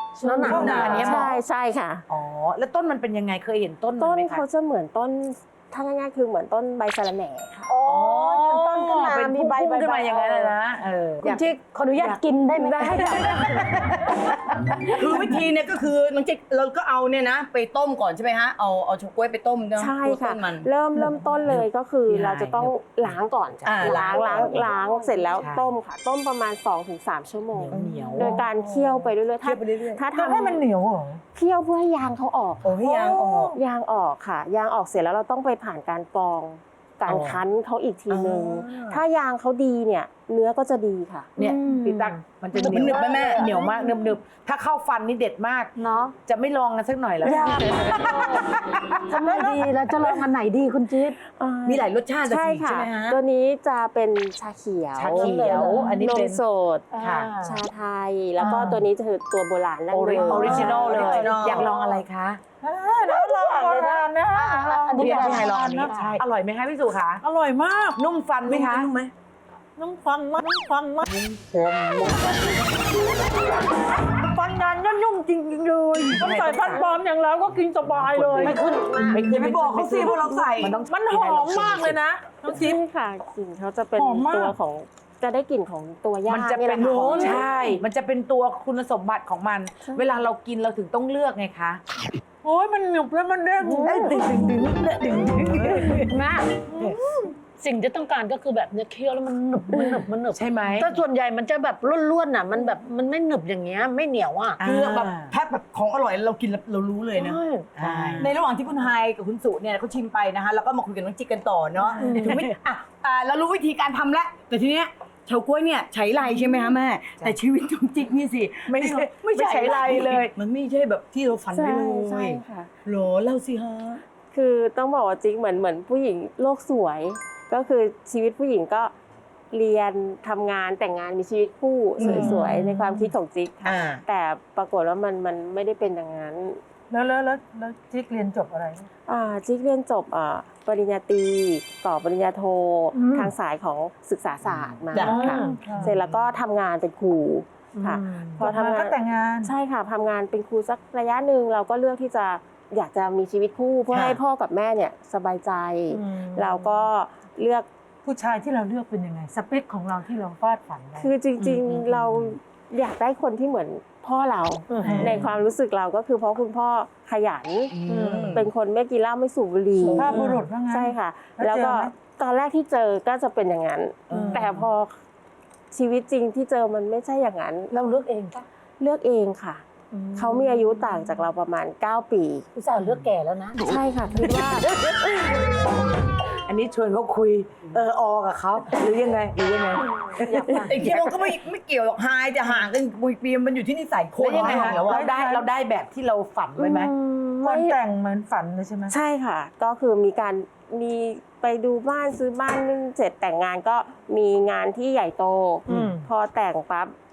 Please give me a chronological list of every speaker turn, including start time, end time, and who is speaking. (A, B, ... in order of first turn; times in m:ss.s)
0:00.2-0:01.2 A
0:00.2-0:02.0 B
0:00.3-0:01.3 C
0:00.4-0:01.4 D
0:02.1-0:04.4 D
0:04.0-0:07.7 B
0:07.7-0:10.5 A
0:07.8-0:12.2 D
0:11.2-0:15.4 A
0:12.8-0:14.2 D
0:15.0-0:20.7 E
0:19.8-0:30.6 B
0:20.9-0:21.3 C
0:21.5-0:24.7 D
0:23.6-0:24.5 E
0:24.7-0:25.4 A
0:25.4-0:25.7 D
0:27.6-0:28.4 D
0:27.7-0:28.4 E
0:28.2-0:29.1 C
0:29.4-0:30.0 E
0:30.1-0:31.2 C
0:31.3-0:32.7 B
0:32.6-0:33.5 E
0:32.8-0:33.5 C
0:33.5-0:41.3 B
0:37.1-0:37.4 D
0:38.1-0:39.0 E
0:41.4-0:45.7 D
0:41.4-0:41.8 C
0:41.5-0:44.1 A
0:42.6-0:43.5 E
0:45.8-0:46.1 A
0:46.2-0:49.5 D
0:47.2-0:47.9 B
0:47.2-0:51.2 A
0:51.2-0:56.9 B
0:51.6-0:53.2 E
0:54.9-0:56.4 D
0:55.1-0:56.0 A
0:56.9-0:57.6 A
0:57.0-0:57.3 D
0:57.4-1:01.4 B
0:58.4-0:58.8 A
0:59.9-1:02.4 D
1:00.1-1:02.0 A
1:00.4-1:00.7 C
1:00.8-1:01.7 E
1:02.6-1:05.9 C
1:03.0-1:06.2 A
1:05.0-1:07.2 D
1:05.0-1:05.8 E
1:07.2-1:08.0 C
1:08.0-1:08.9 D
1:08.4-1:09.1 E
1:09.8-1:11.1 C
1:11.0-1:12.4 E
1:14.2-1:18.7 C
1:16.1-1:16.9 D
1:17.8-1:22.0 D
1:18.4-1:20.3 A
1:19.1-1:20.8 E
1:19.3-1:22.8 C
1:21.2-1:21.9 A
1:22.4-1:27.4 B
1:24.0-1:24.5 C
1:26.3-1:31.8 D
1:26.8-1:27.8 A
1:29.9-1:30.2 B
1:32.4-1:34.8 C
1:33.6-1:34.1 B
1:33.8-1:36.0 E
1:35.6-1:35.9 D
1:36.0-1:36.9 A
1:37.6-1:44.6 A
1:40.3-1:40.9 D
1:44.6-1:45.3 D
1:44.6-2:04.0 E
1:47.1-1:47.7 A
1:47.8-1:48.3 D
1:52.0-1:52.5 A
1:58.7-2:00.3 D
2:01.5-2:02.7 B
2:04.3-2:08.9 B
2:09.5-2:16.6 B
2:12.0-2:12.6 E
2:12.0-2:13.1 C
2:13.6-2:14.0 E
2:16.9-2:18.9 C
2:19.1-2:37.7 B
2:23.0-2:23.3 C
2:25.0-2:25.9 A
2:25.0-2:25.9 C
2:25.9-2:26.2 D
2:27.8-2:28.4 A
2:28.4-2:29.5 C
2:33.9-2:34.2 E
2:35.9-2:36.6 A
2:38.0-2:41.1 C
2:41.0-2:47.7 B
2:41.4-2:42.3 D
2:44.7-2:45.1 A
2:44.8-2:45.2 C
2:44.8-2:45.2 D
2:47.8-2:48.4 E
2:47.9-2:48.4 D
2:47.9-2:48.3 A
2:48.3-2:55.0 B
2:49.8-2:50.4 A
2:49.9-2:51.9 C
2:54.1-2:54.6 D
2:54.1-2:54.4 A
2:55.7-2:57.7 B
2:57.7-2:58.4 A
2:58.8-2:59.6 B
2:59.9-3:01.0 A
3:00.1-3:02.5 B
3:02.6-3:03.6 A
3:03.6-3:04.6 B
3:06.4-3:10.7 D
3:08.8-3:09.2 E
3:10.1-3:11.3 A
3:10.4-3:15.0 E
3:14.2-3:16.9 D
3:14.4-3:15.4 C
3:16.6-3:17.8 A
3:17.4-3:18.9 C
3:18.9-3:26.9 B
3:25.7-3:25.9 D